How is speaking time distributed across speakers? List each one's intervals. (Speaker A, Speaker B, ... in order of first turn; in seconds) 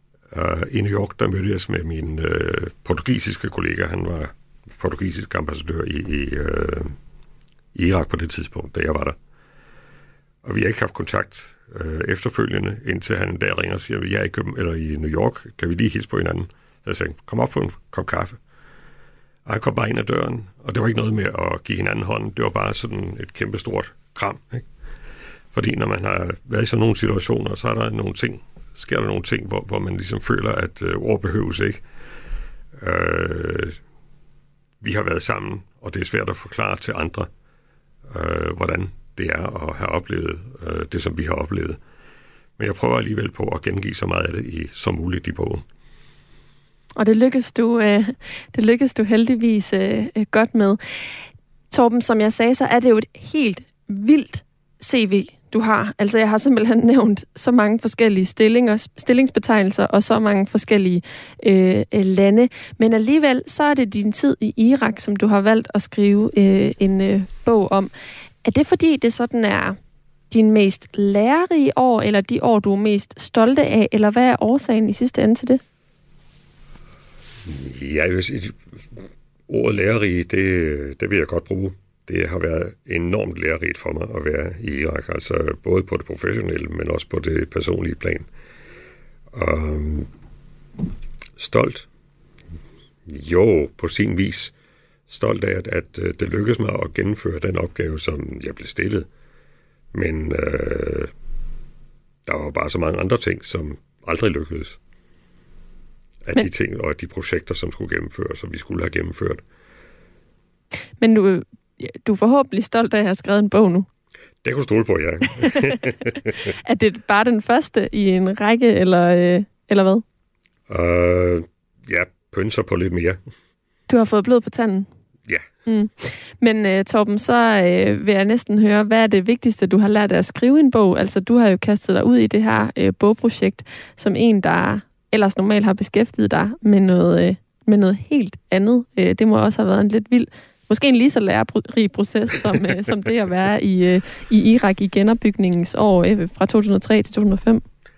Speaker A: 0.3-7.0, 7.7-9.2, 10.4-18.4, 19.4-24.6, 25.5-31.8, 32.8-33.8, 34.8-37.3, 38.1-41.8, 42.6-45.6, 77.5-88.3, 89.3-90.1, 91.3-91.9, 93.0-94.5, 95.1-99.1, 99.9-101.1, 102.2-104.8, 106.2-109.4, 114.4-116.5, 120.7-123.2
Speaker B: 47.0-50.8, 51.7-67.9, 68.4-69.8, 70.3-75.6, 111.0-113.9, 115.4-115.8, 116.4-120.0, 123.9-124.9, 125.7-147.6